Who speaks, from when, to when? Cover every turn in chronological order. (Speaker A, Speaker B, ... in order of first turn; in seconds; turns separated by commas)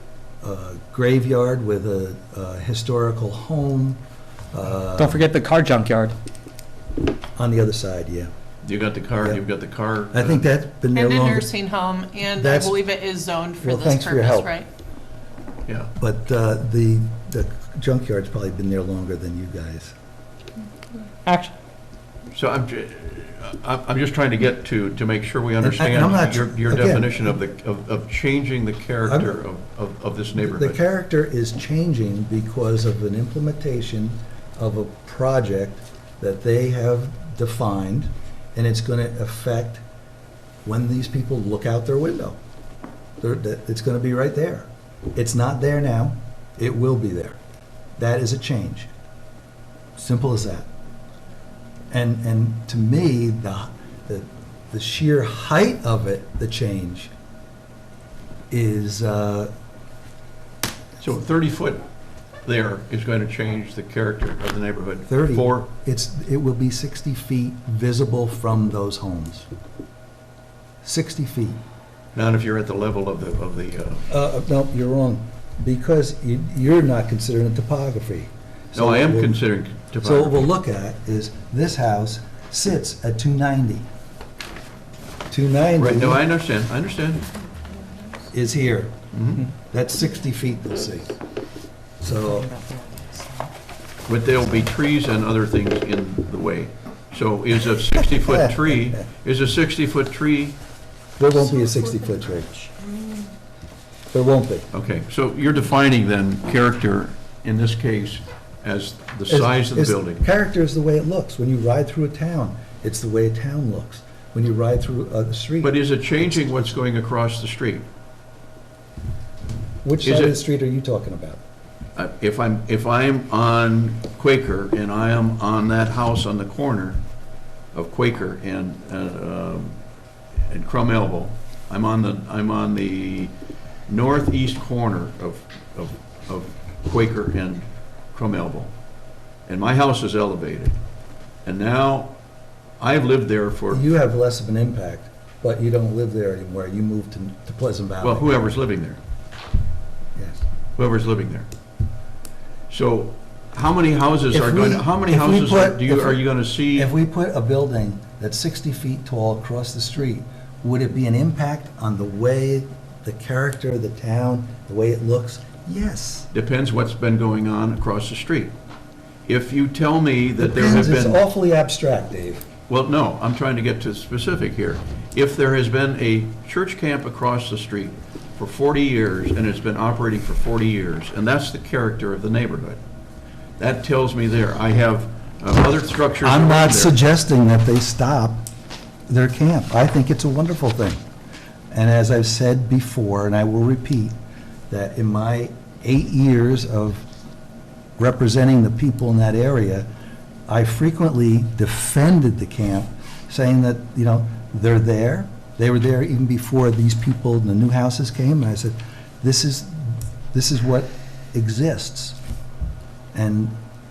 Speaker A: 0.4-4.0, Speaker A: 4.5-5.2, Speaker B: 5.0-6.2, Speaker A: 7.4-8.3, Speaker C: 8.6-10.4, Speaker A: 10.1-11.5, Speaker D: 10.9-14.7, Speaker A: 12.4-12.8, Speaker A: 13.6-14.5, Speaker A: 16.0-19.9, Speaker B: 21.2-21.5, Speaker C: 22.3-30.8, Speaker A: 25.6-27.4, Speaker A: 29.1-29.4, Speaker A: 30.4-39.8, Speaker A: 40.6-42.4, Speaker A: 43.2-47.4, Speaker A: 48.0-48.9, Speaker A: 50.0-50.7, Speaker A: 51.9-57.1, Speaker A: 58.5-59.5, Speaker C: 61.0-61.9, Speaker C: 62.4-65.7, Speaker A: 65.1-69.5, Speaker A: 70.8-71.6, Speaker C: 72.1-74.1, Speaker A: 74.1-79.4, Speaker C: 78.8-80.5, Speaker A: 80.0-83.9, Speaker A: 85.3-86.2, Speaker C: 85.8-87.3, Speaker A: 88.3-89.0, Speaker C: 89.1-89.5, Speaker A: 89.7-91.1, Speaker A: 92.0-92.5, Speaker B: 92.4-93.5, Speaker C: 94.1-100.6, Speaker A: 98.2-99.0, Speaker A: 101.2-102.7, Speaker D: 102.4-103.3, Speaker A: 104.1-104.7, Speaker C: 104.7-110.2, Speaker A: 109.3-115.8, Speaker C: 115.6-117.8, Speaker A: 119.8-121.4, Speaker C: 120.0-120.4, Speaker C: 122.0-127.0, Speaker C: 127.7-129.8, Speaker C: 130.4-133.3, Speaker C: 133.9-138.7, Speaker C: 139.5-140.8, Speaker C: 141.4-142.2, Speaker C: 142.8-143.8, Speaker A: 143.7-148.5, Speaker C: 148.0-149.0, Speaker A: 150.2-150.4, Speaker C: 150.8-151.5, Speaker C: 152.7-156.9, Speaker A: 154.3-156.2, Speaker A: 156.7-166.3, Speaker C: 166.3-168.5, Speaker C: 169.2-171.2, Speaker A: 170.4-172.4, Speaker C: 172.7-182.8, Speaker C: 183.6-187.0, Speaker A: 186.2-188.4, Speaker A: 189.1-191.0, Speaker A: 191.7-194.1, Speaker A: 194.7-197.1, Speaker A: 198.0-199.9, Speaker A: 200.5-212.2, Speaker A: 213.1-213.6